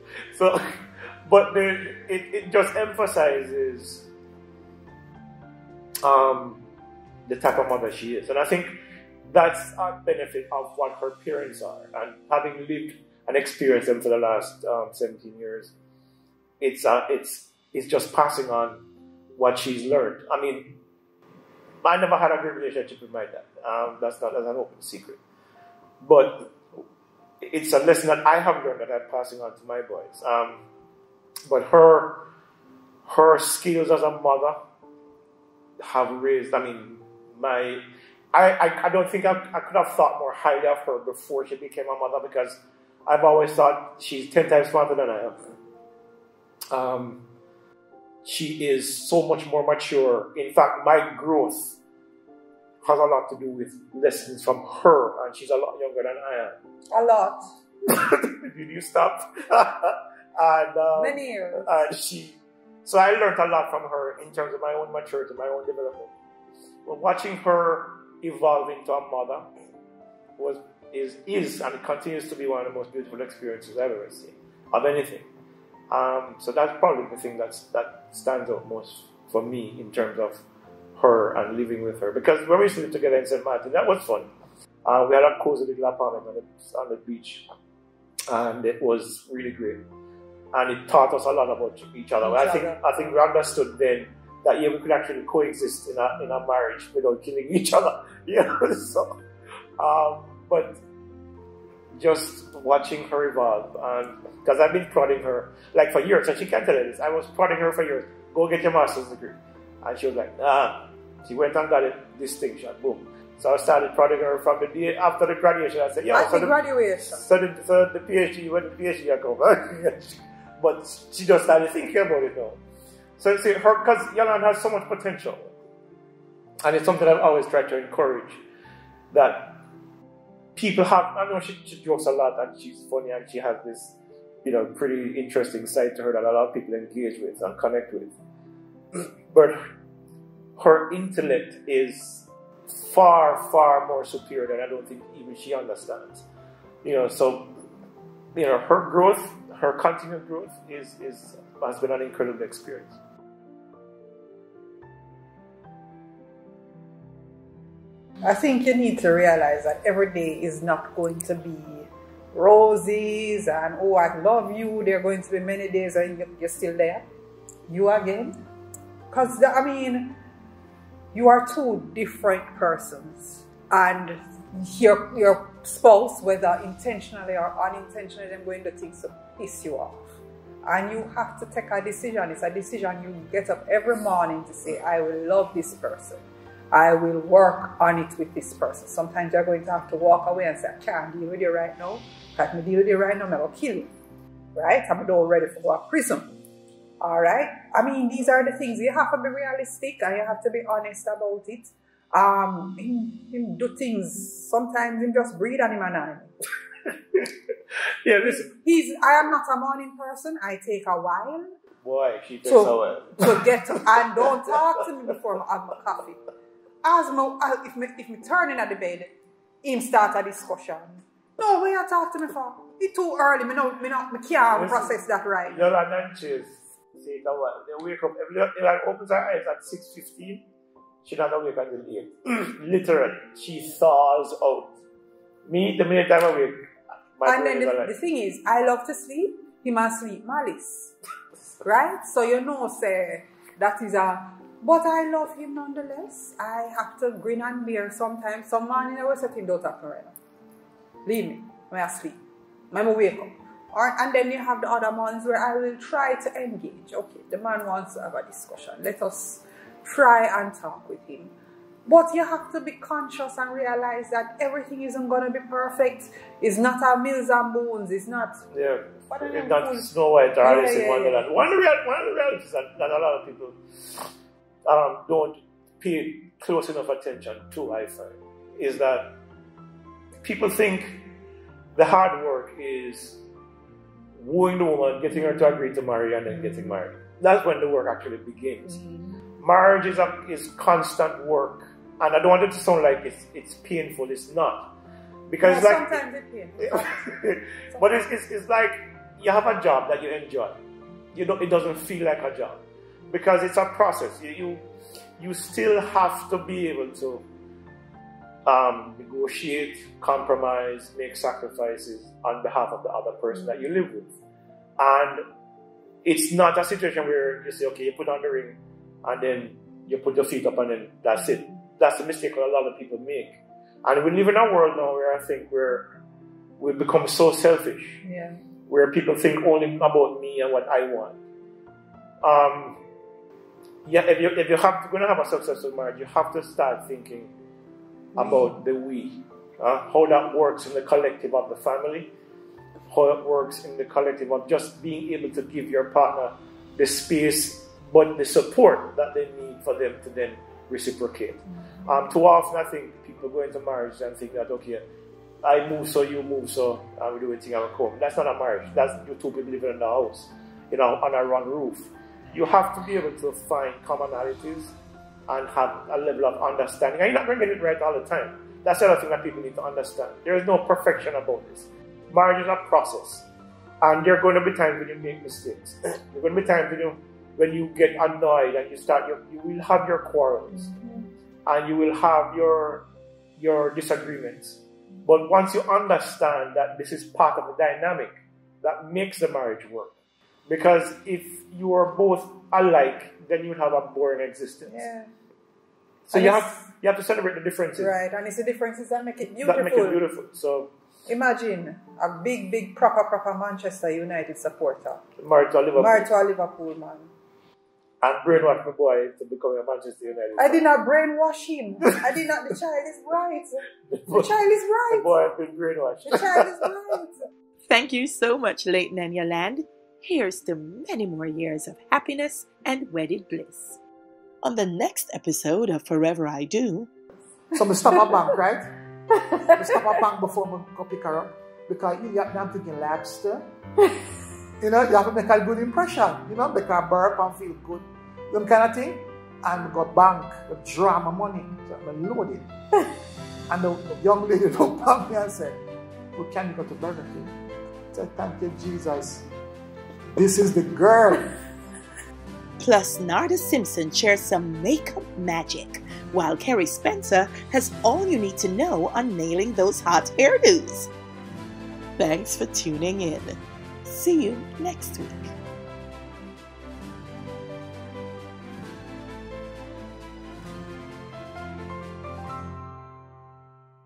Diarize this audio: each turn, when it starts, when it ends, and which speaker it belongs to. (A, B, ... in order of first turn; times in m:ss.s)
0:00.3-0:04.1 A
0:06.0-0:06.6 A
0:07.2-0:15.7 A
0:16.6-0:18.8 A
0:19.3-0:20.8 A
0:21.8-0:25.2 A
0:26.0-0:26.6 A
0:27.4-0:30.6 A
0:31.5-0:32.3 A
0:33.0-0:34.6 A
0:35.8-0:45.5 A
0:46.7-0:47.2 A
0:48.2-0:51.8 A
0:52.8-0:56.6 A
0:56.9-0:57.4 B
0:57.9-1:06.1 A
1:01.0-1:01.8 B
1:06.8-1:09.4 A
1:10.4-1:15.3 A
1:15.9-1:20.4 A
1:21.0-1:24.3 A
1:24.8-1:27.5 A
1:28.3-1:29.8 A
1:30.5-1:39.2 A
1:32.2-1:33.2 B
1:39.8-1:40.8 A
1:41.9-1:56.6 A
1:56.1-1:57.2 B
1:57.1-2:02.6 A
2:03.2-2:05.5 A
2:06.6-2:08.4 A
2:09.1-2:09.6 A
2:10.5-2:18.2 A
2:18.9-2:19.6 A
2:20.6-2:26.2 A
2:26.8-2:27.6 A
2:28.3-2:33.0 A
2:38.2-2:47.0 B
2:47.7-2:48.4 B
2:49.1-2:50.2 B
2:51.1-3:00.0 B
3:00.6-3:13.9 B
3:14.6-3:16.4 B
3:17.0-3:26.3 B
3:26.8-3:27.3 A
3:28.0-3:28.5 A
3:28.2-3:31.5 B
3:31.8-3:33.5 A
3:32.4-3:36.2 B
3:36.8-3:39.1 B
3:39.6-3:45.7 B
3:44.5-3:50.4 A
3:51.0-3:54.7 A
3:55.4-3:56.6 A
3:57.2-3:57.9 A
3:57.2-4:00.9 B
4:01.6-4:10.1 B
4:11.0-4:12.2 B
4:12.7-4:21.3 B
4:21.8-4:28.4 B
4:28.5-4:34.1 A
4:29.1-4:31.2 B
4:34.6-4:39.1 A
4:40.2-4:41.0 A
4:41.7-4:43.2 A
4:44.1-4:48.8 A
4:48.7-4:49.2 B
4:49.4-4:54.7 A
4:55.3-4:56.0 A
4:55.4-4:57.9 B
4:56.6-5:00.6 A
5:01.1-5:04.6 A
5:05.2-5:07.2 A
5:08.4-5:14.1 A
5:14.8-5:15.2 A
5:16.0-5:25.9 A
5:26.6-5:28.0 A
5:28.0-5:28.4 B
5:28.7-5:31.2 A
5:32.2-5:32.8 A
5:33.8-5:37.3 A
5:38.1-5:38.5 B
5:38.2-5:42.1 A
5:42.9-5:54.8 A
5:55.4-6:04.7 A
6:05.3-6:13.3 A
6:13.8-6:20.7 A
6:20.6-6:21.0 B
6:21.4-6:22.8 A
6:23.4-6:29.9 A
6:30.5-6:34.9 A
6:34.7-6:35.1 B
6:36.0-6:37.9 A
6:36.1-6:36.7 B
6:37.8-6:40.0 B
6:39.4-6:40.7 A
6:41.1-6:45.0 B
6:45.2-6:46.1 A
6:45.8-6:47.1 B
6:48.0-6:50.6 A
6:50.4-6:55.1 B
6:53.9-6:56.5 A
6:56.1-6:57.2 B
6:57.7-7:03.8 C
7:04.4-7:06.9 C
7:07.5-7:08.7 D
7:07.9-7:08.2 B
7:09.2-7:09.8 B
7:09.5-7:13.4 D
7:14.6-7:22.5 D
7:23.5-7:25.6 D
7:26.1-7:27.3 D
7:27.9-7:29.2 D
7:30.1-7:31.3 D
7:32.6-7:40.9 C
7:42.0-7:45.3 C